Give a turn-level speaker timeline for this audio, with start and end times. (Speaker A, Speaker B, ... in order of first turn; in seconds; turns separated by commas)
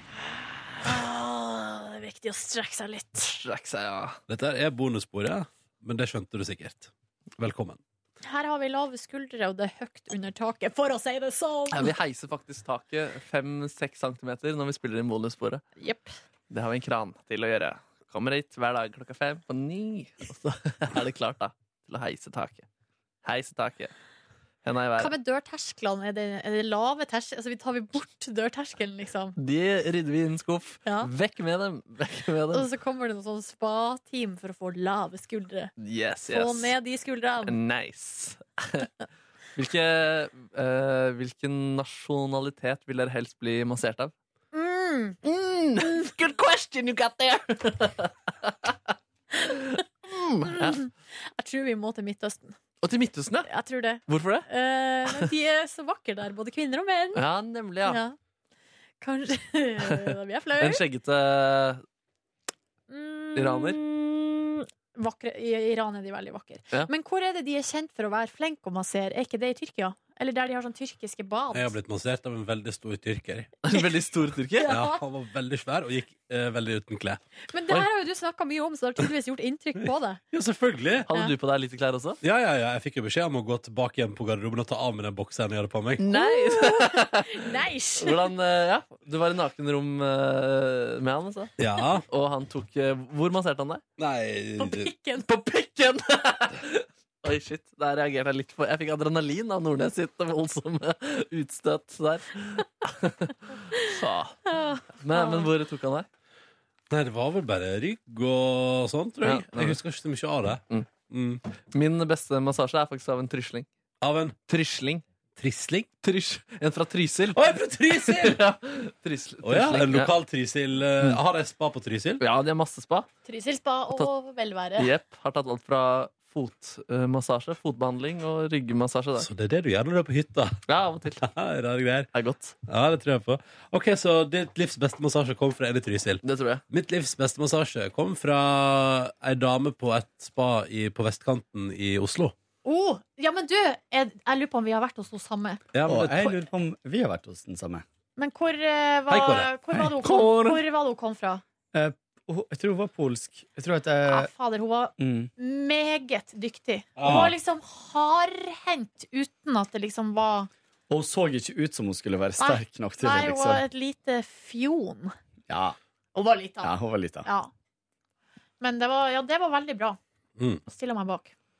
Speaker A: 0.8-3.4, Speaker B: 3.3-4.2, Speaker C: 4.3-7.8, Speaker A: 8.2-11.9, Speaker B: 11.7-15.6, Speaker A: 15.8-16.1, Speaker B: 16.5-22.6, Speaker B: 23.2-23.9, Speaker B: 24.6-25.1, Speaker A: 25.0-29.4, Speaker B: 29.4-32.7, Speaker A: 32.5-35.7, Speaker B: 35.8-36.7, Speaker A: 36.3-37.5, Speaker B: 37.5-38.9, Speaker B: 39.5-44.1, Speaker A: 44.5-45.2, Speaker B: 45.2-48.9, Speaker A: 45.8-46.1, Speaker B: 50.1-50.8, Speaker A: 50.4-52.6, Speaker B: 52.8-53.5, Speaker A: 53.5-57.2, Speaker B: 54.0-54.5, Speaker B: 57.1-58.0, Speaker A: 57.8-58.1, Speaker A: 59.0-60.8, Speaker B: 60.6-61.8, Speaker A: 62.9-71.7, Speaker B: 63.3-63.8, Speaker C: 71.5-73.5, Speaker B: 73.6-74.8, Speaker A: 74.6-75.0, Speaker C: 74.7-77.2, Speaker A: 77.5-80.2, Speaker C: 80.3-81.1, Speaker B: 81.1-82.2, Speaker C: 82.2-86.0, Speaker B: 86.0-87.5, Speaker A: 86.1-88.3, Speaker B: 88.0-91.5, Speaker C: 91.6-92.0, Speaker B: 92.1-93.8, Speaker C: 94.0-94.9, Speaker A: 94.6-95.2, Speaker B: 95.2-104.4, Speaker A: 104.5-105.5, Speaker B: 105.0-106.1, Speaker C: 106.9-111.4, Speaker B: 109.2-109.8, Speaker B: 111.7-113.7, Speaker C: 114.0-114.3, Speaker B: 114.5-115.0, Speaker C: 115.4-115.9, Speaker B: 116.0-120.1, Speaker C: 117.3-118.4, Speaker C: 119.4-122.2, Speaker B: 122.2-123.1, Speaker A: 123.2-124.9, Speaker B: 124.8-129.3, Speaker C: 129.2-130.6, Speaker B: 130.7-131.2, Speaker C: 131.2-132.1, Speaker B: 132.1-132.5, Speaker C: 132.7-142.3, Speaker B: 136.2-136.6, Speaker A: 142.6-145.6, Speaker C: 145.7-146.3, Speaker D: 145.8-147.8, Speaker A: 148.2-151.4, Speaker C: 149.1-149.8, Speaker B: 150.0-150.6, Speaker D: 151.7-154.3, Speaker A: 154.1-160.5, Speaker D: 155.0-155.3, Speaker C: 157.0-157.3, Speaker D: 157.0-157.3, Speaker D: 160.9-163.6, Speaker A: 162.4-165.1, Speaker D: 165.5-165.8, Speaker A: 166.1-166.7, Speaker D: 166.6-167.3, Speaker A: 167.2-167.5, Speaker A: 168.6-170.0, Speaker C: 170.4-170.6, Speaker A: 170.7-171.3